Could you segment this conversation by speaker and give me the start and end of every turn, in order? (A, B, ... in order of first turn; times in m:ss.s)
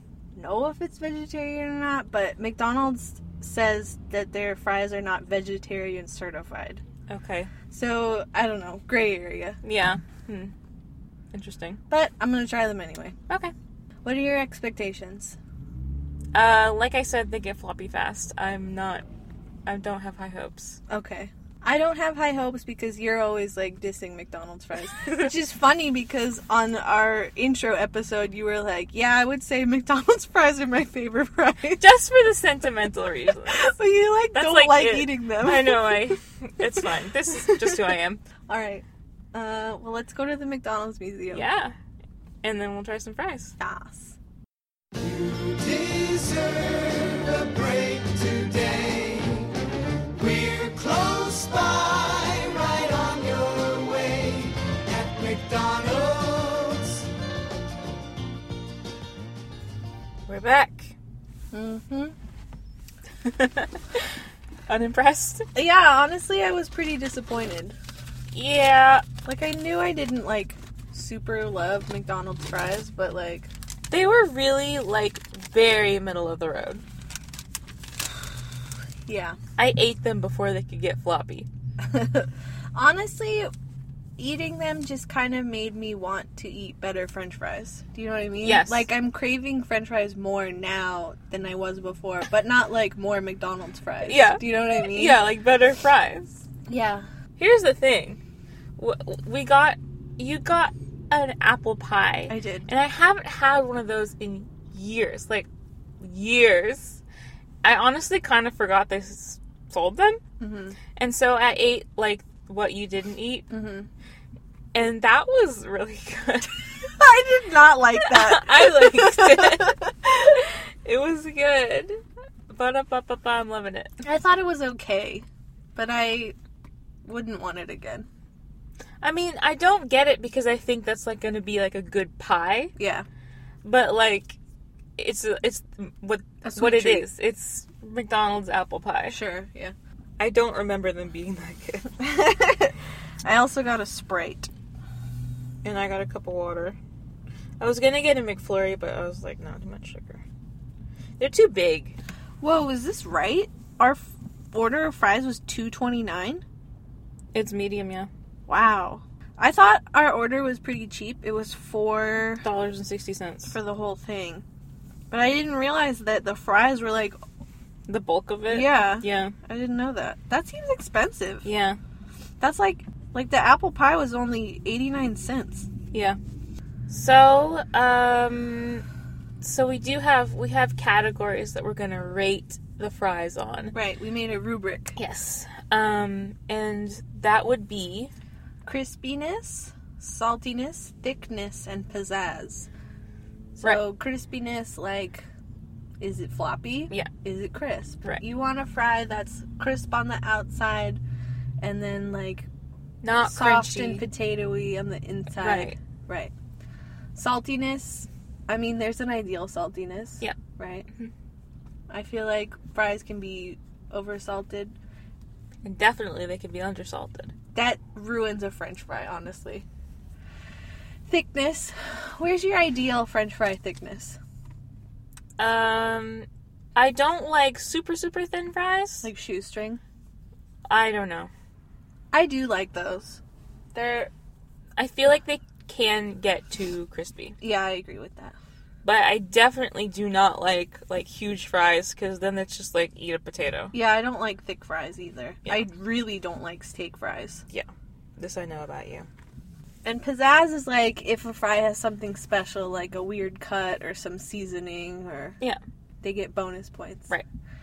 0:00.4-0:06.8 A
0:07.1-0:07.5 B
0:07.7-0:09.6 A
0:09.6-0:10.5 B
0:11.3-0:11.8 B
0:11.9-0:13.1 A
0:14.0-0:15.4 A
0:16.3-0:19.0 B
0:19.6-0:20.8 B
0:20.9-0:31.8 A
0:31.8-0:33.7 B
0:33.4-0:36.1 A
0:34.3-0:38.2 B
0:37.5-0:37.8 A
0:38.5-0:41.4 A
0:41.3-0:41.7 B
0:42.4-0:43.5 B
0:43.6-0:44.2 A
0:45.4-0:49.4 C
0:50.2-0:56.9 C
1:00.3-1:00.9 B
1:01.5-1:02.1 A
1:03.2-1:04.0 B
1:04.7-1:05.4 B
1:05.5-1:07.8 A
1:08.3-1:09.0 B
1:09.2-1:13.5 A
1:13.9-1:16.8 B
1:19.1-1:19.4 A
1:19.6-1:21.5 B
1:21.8-1:23.5 A
1:24.2-1:35.2 A
1:28.4-1:28.9 B
1:34.0-1:36.4 B
1:36.7-1:37.0 A
1:37.4-1:38.2 B
1:38.8-1:45.5 B
1:42.3-1:42.7 A
1:46.0-1:47.0 B
1:47.6-1:50.2 B
1:50.4-1:50.8 A
1:51.0-1:53.5 B
1:53.5-1:53.9 A
1:54.7-1:56.9 B
1:57.0-1:59.9 A
1:58.0-2:01.9 B
2:02.5-2:03.9 B
2:04.0-2:06.3 A
2:07.0-2:08.0 A
2:09.0-2:12.7 B
2:12.8-2:13.0 A
2:13.6-2:14.4 B
2:15.0-2:19.2 B
2:16.4-2:17.1 A
2:19.1-2:19.7 A
2:20.2-2:22.0 B
2:22.0-2:22.7 A
2:23.2-2:24.5 A
2:25.6-2:26.8 B
2:27.6-2:30.2 B
2:31.2-2:32.0 B
2:32.4-2:36.4 A
2:37.3-2:38.1 B
2:38.5-2:42.4 A
2:42.4-2:43.5 B
2:43.5-2:44.4 A
2:45.1-2:47.2 A
2:47.9-2:49.3 B
2:48.5-2:51.5 A
2:51.4-2:51.8 B
2:52.4-2:55.7 A
2:55.9-2:56.2 B
2:56.9-2:58.8 B
2:59.4-3:03.7 B
3:03.7-3:05.0 A
3:05.0-3:08.1 B
3:08.6-3:12.7 A
3:13.6-3:15.2 A
3:16.0-3:21.0 A
3:21.6-3:22.5 A
3:23.0-3:24.0 B
3:23.1-3:26.3 A
3:25.4-3:25.8 B
3:27.1-3:30.9 A
3:31.9-3:34.7 A
3:35.6-3:37.3 B
3:37.5-3:39.6 A
3:41.1-3:44.2 A
3:45.4-3:49.1 B
3:49.0-3:49.8 A
3:50.7-3:51.3 B
3:52.1-3:53.2 A
3:53.7-3:54.1 A
3:54.8-3:57.4 B
3:57.4-3:58.4 A
3:58.8-4:03.7 B
4:03.7-4:07.4 A
4:07.5-4:09.1 B
4:09.8-4:15.4 A
4:16.0-4:17.1 A